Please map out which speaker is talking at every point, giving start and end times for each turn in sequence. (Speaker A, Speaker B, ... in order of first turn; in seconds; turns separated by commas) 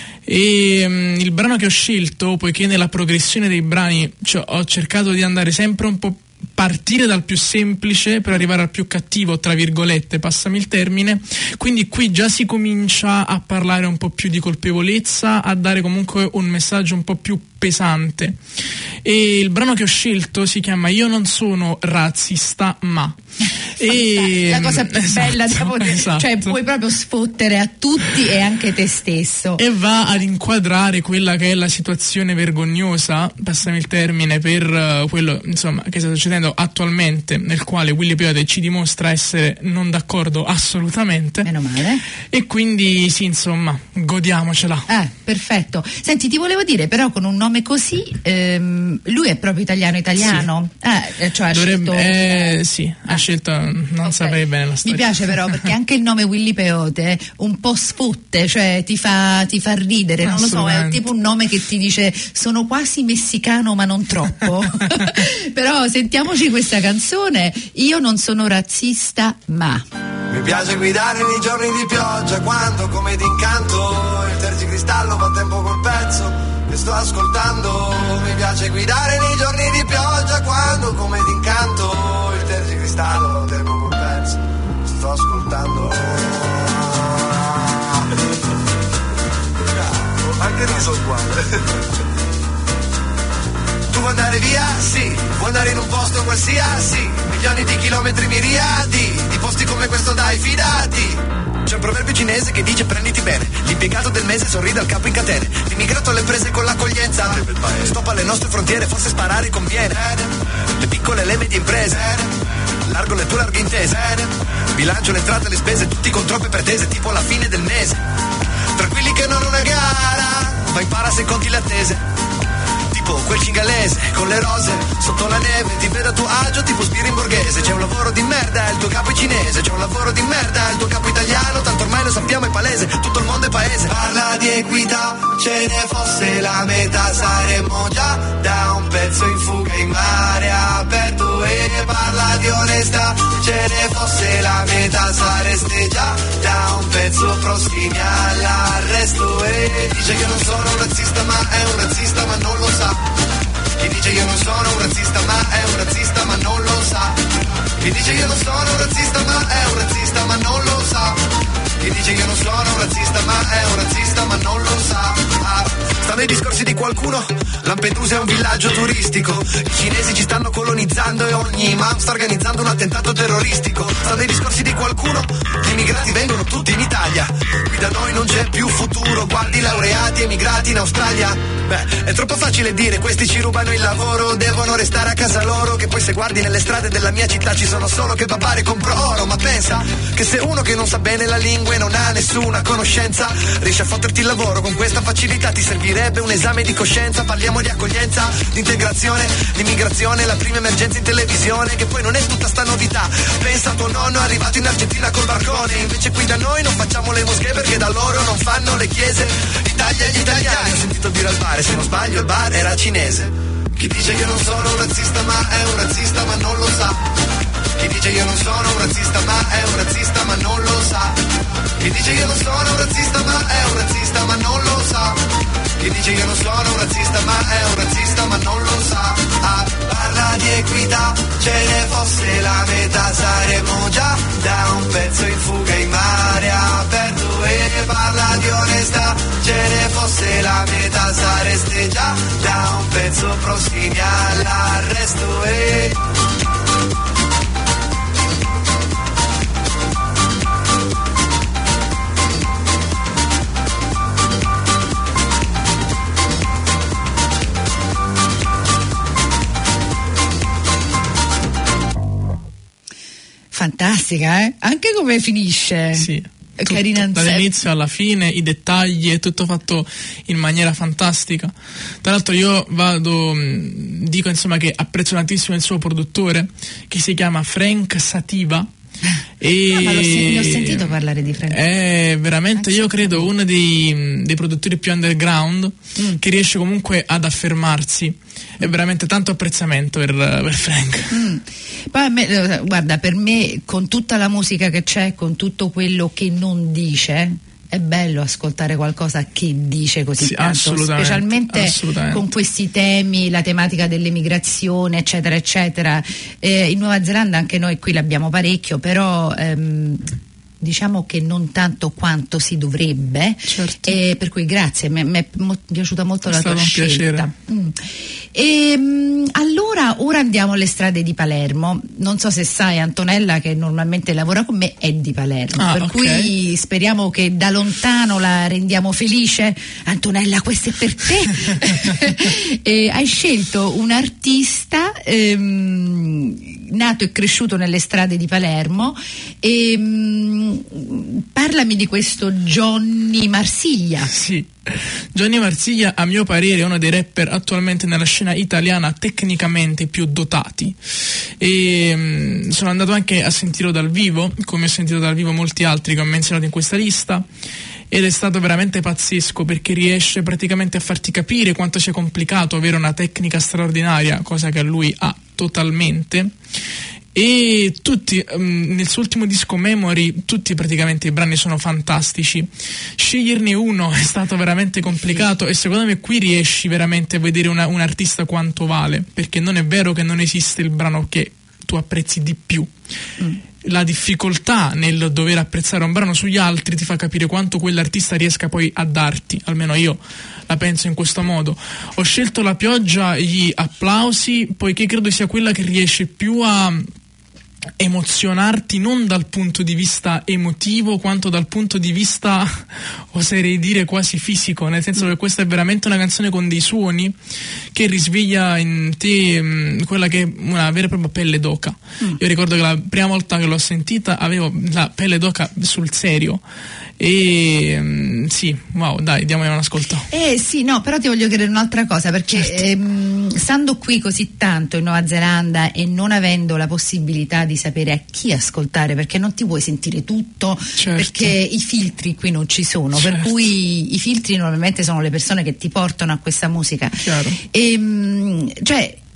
Speaker A: 0.2-18.4, Speaker A: 19.0-23.2, Speaker A: 23.8-26.6, Speaker B: 23.8-29.6, Speaker A: 29.6-41.5, Speaker B: 41.4-42.0, Speaker A: 42.3-44.9, Speaker B: 44.9-53.2, Speaker A: 50.2-50.5, Speaker A: 51.5-55.6, Speaker B: 54.0-69.8, Speaker A: 60.2-61.1, Speaker C: 70.3-87.8, Speaker C: 89.7-91.6, Speaker C: 93.9-112.3, Speaker C: 112.9-118.0, Speaker C: 118.8-122.0, Speaker C: 122.9-153.0, Speaker C: 153.8-157.2, Speaker C: 157.8-161.2, Speaker C: 161.8-217.0, Speaker C: 217.8-221.2, Speaker C: 221.8-225.2, Speaker C: 225.8-246.0, Speaker B: 263.5-267.5, Speaker A: 265.9-278.7, Speaker A: 279.4-280.9, Speaker B: 279.7-281.6, Speaker A: 281.5-291.2, Speaker B: 282.6-283.2, Speaker B: 291.1-344.1, Speaker A: 300.2-302.2, Speaker A: 313.5-314.0, Speaker A: 316.3-317.3, Speaker A: 325.6-326.3, Speaker A: 344.1-350.8, Speaker A: 351.4-357.2, Speaker A: 357.9-366.3, Speaker A: 367.1-382.7, Speaker A: 383.6-396.9, Speaker A: 397.8-407.2, Speaker A: 407.7-416.4, Speaker A: 417.0-420.1, Speaker B: 420.1-439.0, Speaker A: 430.8-431.4, Speaker A: 433.0-433.5, Speaker A: 437.0-437.4